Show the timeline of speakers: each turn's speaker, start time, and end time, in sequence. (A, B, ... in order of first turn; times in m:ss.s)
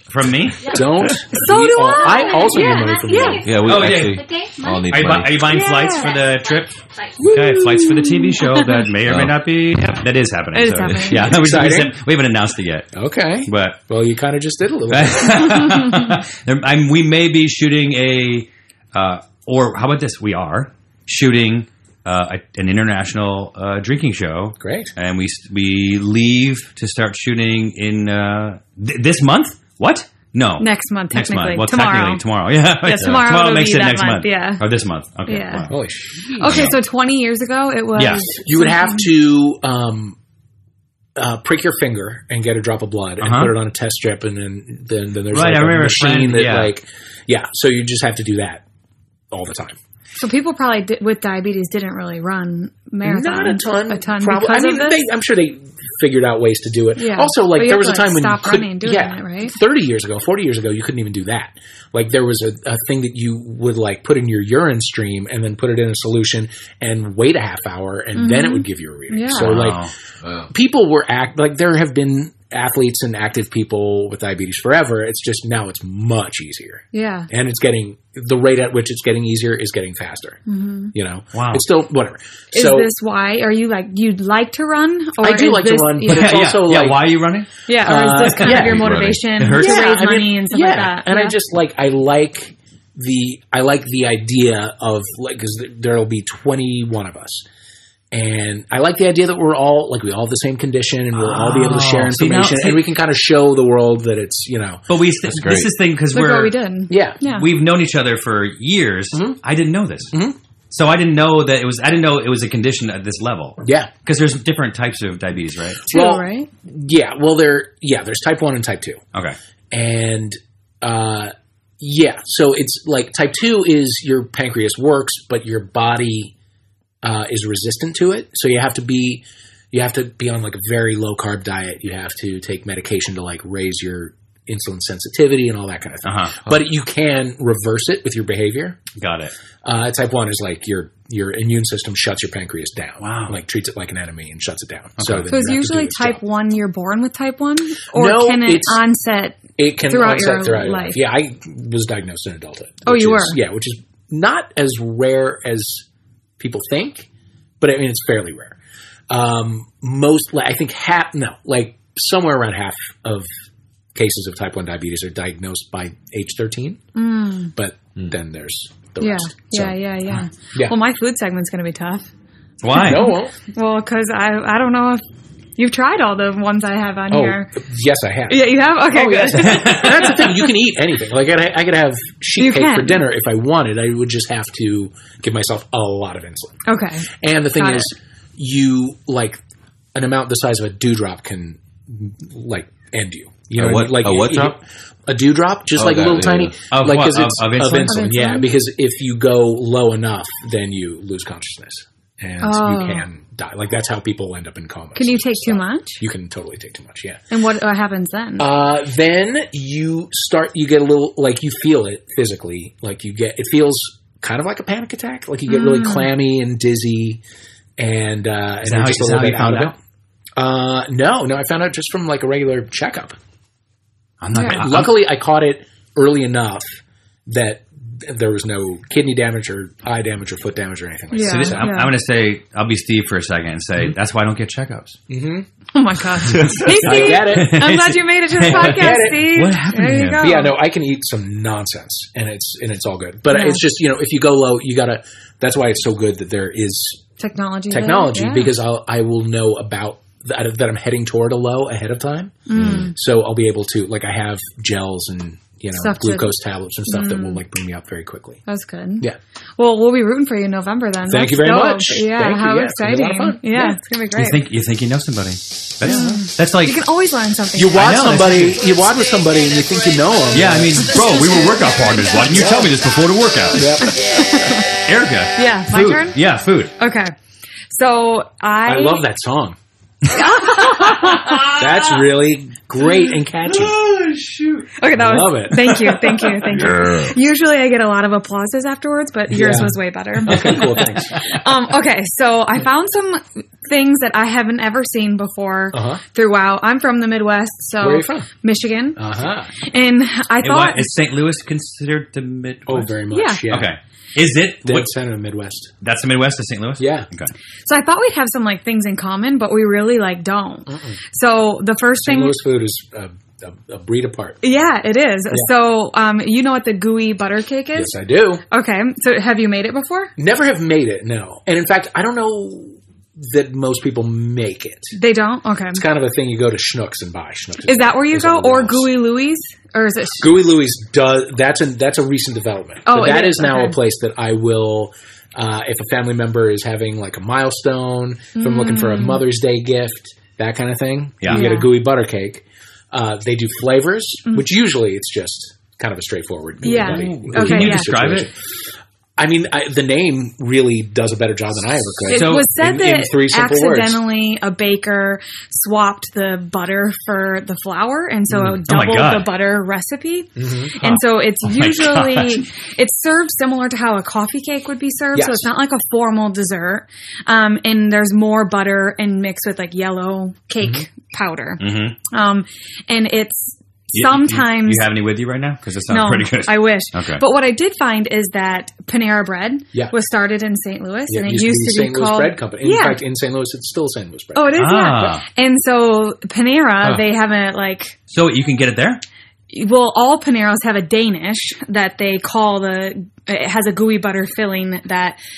0:00.1-0:01.2 A
0:00.6-0:07.2 B
0:00.6-0:03.4 C
0:01.3-0:03.4 D
0:03.4-0:05.4 E
0:03.6-0:04.2 A
0:04.9-0:06.7 A
0:05.5-0:06.1 D
0:07.2-0:08.3 C
0:07.3-0:12.9 A
0:08.4-0:08.9 D
0:09.0-0:09.4 E
0:10.5-0:11.3 D
0:11.2-0:12.0 C
0:12.9-0:15.8 C
0:13.4-0:13.8 A
0:14.9-0:35.8 A
0:24.6-0:24.9 C
0:30.6-0:32.2 D
0:32.8-0:34.6 D
0:35.3-0:35.7 D
0:35.7-0:36.7 C
0:36.4-0:39.1 D
0:36.4-0:36.8 A
0:38.0-0:38.3 A
0:38.4-0:40.2 C
0:41.2-0:48.6 C
0:43.2-0:43.5 A
0:45.3-0:46.7 A
0:49.3-0:49.8 C
0:50.2-0:55.0 D
0:53.0-1:09.9 C
0:57.0-0:59.5 D
1:08.1-1:09.5 D
1:09.4-1:09.9 A
1:10.2-1:10.5 E
1:10.5-1:20.4 C
1:16.9-1:17.3 D
1:20.5-1:20.9 D
1:20.9-1:22.9 C
1:21.3-1:21.6 A
1:22.5-1:26.5 D
1:25.2-1:27.1 C
1:26.0-1:29.8 A
1:27.7-1:31.4 D
1:27.8-1:37.4 C
1:38.1-1:44.8 C
1:41.1-1:42.9 A
1:44.9-1:46.5 A
1:45.3-1:45.7 E
1:46.1-1:47.5 D
1:46.9-1:47.2 C
1:47.2-1:50.1 A
1:49.1-1:49.4 C
1:50.1-1:50.4 C
1:50.7-1:55.8 A
1:53.6-1:53.9 C
1:55.9-1:59.0 C
1:55.9-1:56.5 D
1:59.7-2:06.3 C
2:07.0-2:18.8 C
2:16.0-2:16.6 A
2:19.0-2:19.3 A
2:19.6-2:26.2 C
2:23.0-2:23.4 A
2:25.0-2:25.3 A
2:25.3-2:31.0 D
2:27.9-2:28.8 C
2:29.6-2:35.8 C
2:32.8-2:33.4 D
2:36.4-2:37.1 C
2:37.6-2:38.6 C
2:39.1-2:43.3 C
2:43.9-2:46.8 C
2:46.9-2:47.5 D
2:47.5-2:49.8 C
2:49.0-2:52.1 D
2:52.6-2:53.1 A
2:52.7-2:55.0 D
2:52.8-2:53.3 C
2:55.6-2:57.5 D
2:57.1-3:06.6 C
2:58.3-3:00.4 D
2:59.4-3:00.3 A
3:02.4-3:03.0 D
3:06.6-3:07.9 D
3:07.2-3:09.4 C
3:09.9-3:27.2 C
3:13.5-3:14.5 E
3:15.8-3:16.5 E
3:16.7-3:18.0 A
3:17.9-3:18.5 D
3:22.4-3:23.0 D
3:24.9-3:26.0 D
3:27.3-3:28.5 D
3:28.4-3:37.2 C
3:35.5-3:36.1 D
3:37.8-3:39.7 C
3:38.6-3:39.7 A
3:40.4-3:43.2 C
3:44.2-3:44.9 A
3:44.4-3:51.7 C
3:51.1-3:51.9 D
3:51.2-3:55.0 A
3:55.1-3:55.5 C
3:55.7-4:00.5 D
3:56.4-4:00.2 A
3:56.4-3:57.7 C
3:58.4-3:59.5 C
4:00.2-4:07.0 C
4:03.3-4:03.6 D
4:07.2-4:08.5 D
4:07.7-4:18.4 C
4:12.5-4:12.9 D
4:12.6-4:12.8 E
4:15.8-4:16.3 D
4:16.9-4:17.4 D
4:18.5-4:19.0 D
4:19.6-4:24.4 D
4:21.0-4:23.8 C
4:24.2-4:26.8 A
4:25.8-4:28.1 D
4:25.8-4:26.2 C
4:27.5-4:31.0 C
4:27.8-4:28.6 A
4:30.3-4:33.8 A
4:30.9-4:31.9 D
4:32.2-4:32.8 C
4:33.5-4:34.2 C
4:33.8-4:34.7 D
4:34.8-4:36.7 A
4:35.4-4:36.2 D
4:36.8-4:37.1 D
4:37.7-4:39.0 D
4:38.6-4:39.6 C
4:40.1-4:41.5 D
4:40.2-4:41.8 A
4:41.4-4:43.8 C
4:43.4-4:44.7 A
4:44.8-4:59.0 D
4:44.9-4:45.7 C
4:45.7-4:47.0 A
4:46.5-4:46.9 E
4:49.3-4:51.2 C
4:50.3-4:51.0 A
4:55.7-4:56.0 C
4:57.8-4:58.3 C
4:59.0-4:59.5 C
4:59.6-5:00.9 D
5:00.4-5:03.0 A
5:02.6-5:03.7 C
5:03.1-5:03.4 D
5:03.5-5:04.9 A
5:04.6-5:05.7 C
5:05.8-5:07.3 A
5:06.8-5:07.1 C
5:07.6-5:12.3 D
5:10.7-5:11.0 C
5:12.0-5:14.4 C
5:14.4-5:17.9 D
5:17.7-5:18.4 C
5:18.5-5:20.1 D
5:20.2-5:25.0 C
5:24.9-5:25.8 D
5:25.7-5:28.9 C
5:27.6-5:30.4 D
5:30.2-5:48.3 C
5:32.8-5:33.8 D
5:38.4-5:39.2 D
5:41.3-5:41.7 D
5:46.6-5:47.9 D
5:46.6-5:48.3 A
5:49.2-5:54.0 C
5:52.1-6:14.9 D
5:52.1-5:52.4 A
5:58.3-5:58.6 C
5:58.7-5:59.3 A
6:00.4-6:01.0 C
6:00.8-6:02.4 A
6:05.1-6:05.5 C
6:10.6-6:10.8 C
6:11.6-6:12.0 A
6:13.9-6:17.2 A
6:15.9-6:23.0 D
6:21.1-6:24.7 C
6:24.3-6:28.0 D
6:24.5-6:25.2 A
6:28.1-6:29.0 A
6:29.5-6:35.2 D